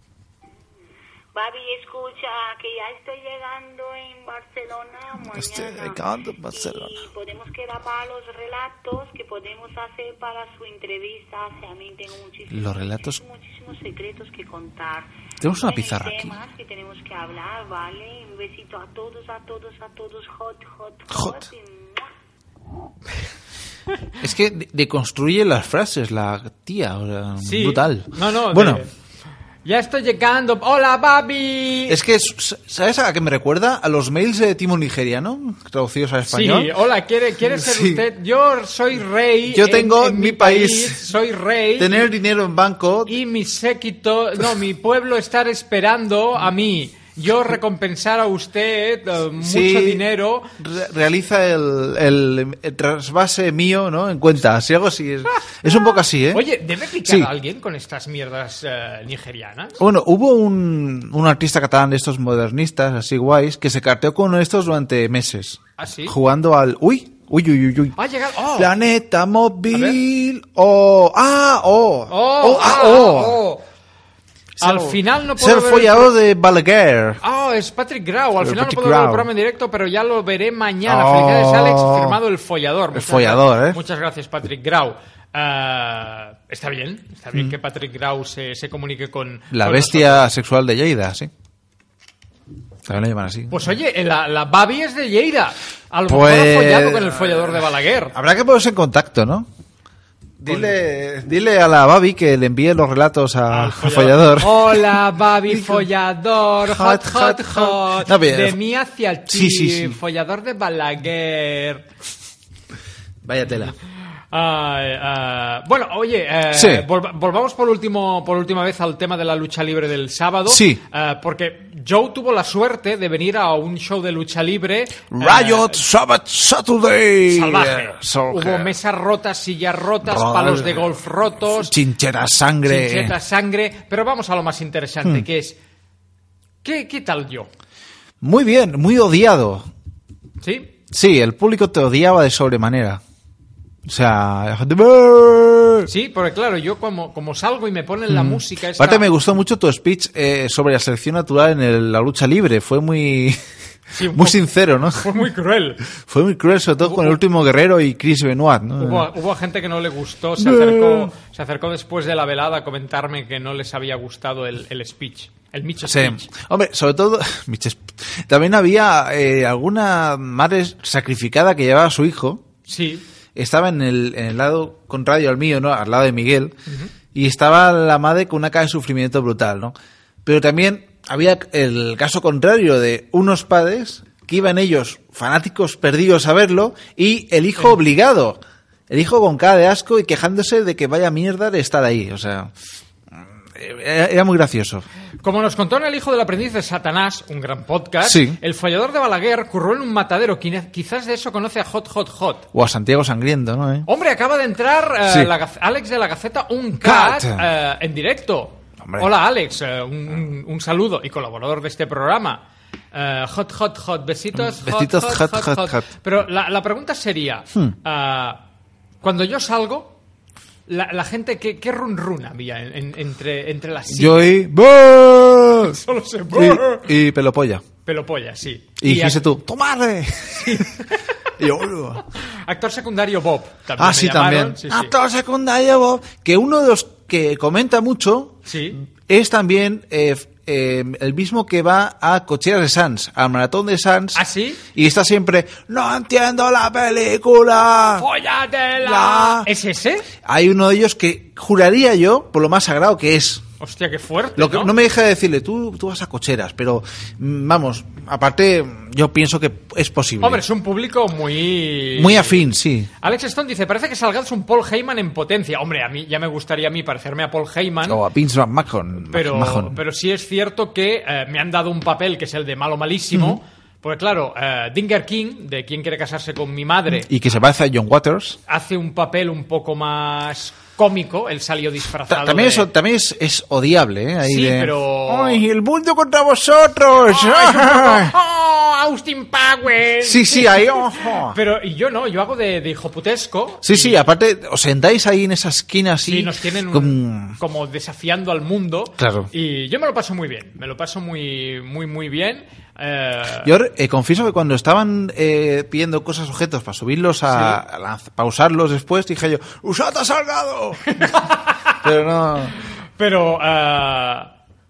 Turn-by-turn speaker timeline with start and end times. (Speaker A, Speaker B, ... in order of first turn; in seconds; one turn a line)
Speaker A: 1.4-6.0
Speaker B: 5.3-6.9
Speaker A: 6.5-22.1
Speaker B: 12.5-13.2
Speaker B: 15.4-16.4
Speaker B: 21.1-21.5
Speaker B: 24.2-28.8
Speaker C: 27.4-28.9
Speaker C: 29.6-32.0
Speaker B: 31.9-36.7
Speaker C: 36.3-42.1
Speaker B: 37.5-38.0
Speaker B: 39.5-41.0
Speaker B: 41.8-43.2
Speaker C: 43.1-50.5
Speaker B: 49.4-50.0
Speaker B: 50.6-56.5
Speaker C: 55.6-59.8
Speaker B: 59.8-68.0
Speaker C: 65.8-66.2
Speaker C: 68.0-68.7
Speaker B: 68.6-73.4
Speaker C: 69.7-70.0
Speaker C: 72.1-73.6
Speaker C: 74.6-76.1
Speaker B: 74.6-77.2
Speaker C: 77.2-90.3
Speaker B: 78.4-79.3
Speaker B: 80.9-82.2
Speaker B: 82.9-83.8
Speaker B: 89.5-91.3
Speaker B: 92.9-93.6
Speaker C: 93.5-98.2
Speaker B: 96.1-99.5
Speaker B: 100.4-105.9
Speaker C: 100.5-100.8
Speaker C: 103.5-111.8
Speaker B: 106.7-108.6
Speaker B: 109.3-110.0
Speaker B: 113.2-113.8
Speaker C: 114.3-125.8
Speaker B: 116.5-116.9
Speaker B: 120.5-120.8
Speaker B: 125.1-128.7
Speaker C: 127.3-131.7
Speaker B: 130.0-133.2
Speaker C: 132.7-135.6
Speaker C: 136.6-137.5
Speaker B: 138.2-139.7
Speaker C: 140.4-140.7
Speaker B: 140.9-143.0
Speaker B: 143.9-145.9
Speaker C: 145.9-149.1
Speaker B: 148.1-153.4
Speaker C: 153.9-154.4
Speaker B: 154.1-155.1
Speaker C: 155.0-155.8
Speaker B: 156.0-159.1
Speaker C: 156.8-157.2
Speaker C: 158.8-166.2
Speaker B: 160.4-161.1
Speaker B: 165.8-172.4
Speaker C: 172.7-173.0
Speaker B: 173.4-176.6
Speaker B: 177.1-192.5
Speaker B: 193.1-194.9
Speaker C: 195.2-202.5
Speaker B: 198.0-198.4
Speaker B: 202.5-203.9
Speaker C: 203.9-212.4
Speaker B: 205.1-205.3
Speaker B: 206.8-207.4
Speaker B: 208.8-209.1
Speaker C: 212.9-218.4
Speaker B: 214.3-215.9
Speaker C: 219.0-219.9
Speaker C: 220.7-224.4
Speaker B: 223.9-225.8
Speaker C: 225.7-226.9
Speaker B: 226.3-227.7
Speaker C: 227.9-229.3
Speaker B: 228.8-230.7
Speaker C: 230.4-231.0
Speaker B: 231.4-232.0
Speaker C: 232.2-234.9
Speaker B: 233.8-238.4
Speaker C: 238.5-238.8
Speaker B: 239.1-244.2
Speaker C: 244.2-244.6
Speaker B: 244.7-248.1
Speaker C: 248.0-250.1
Speaker B: 248.8-249.5
Speaker B: 250.2-253.4
Speaker C: 253.6-254.7
Speaker B: 254.4-260.4
Speaker C: 260.2-262.5
Speaker B: 261.9-262.9
Speaker C: 263.0-268.0
Speaker B: 267.9-269.8
Speaker C: 269.1-277.1
Speaker B: 273.1-273.4
Speaker B: 277.0-278.4
Speaker C: 278.5-282.7
Speaker B: 282.1-288.1
Speaker C: 284.2-285.4
Speaker C: 287.1-294.1
Speaker B: 290.0-291.4
Speaker B: 293.6-297.4
Speaker C: 296.1-303.5
Speaker B: 299.0-299.3
Speaker B: 303.4-311.1
Speaker C: 307.3-307.6
Speaker C: 310.9-311.9
Speaker B: 311.8-312.5
Speaker C: 313.0-314.3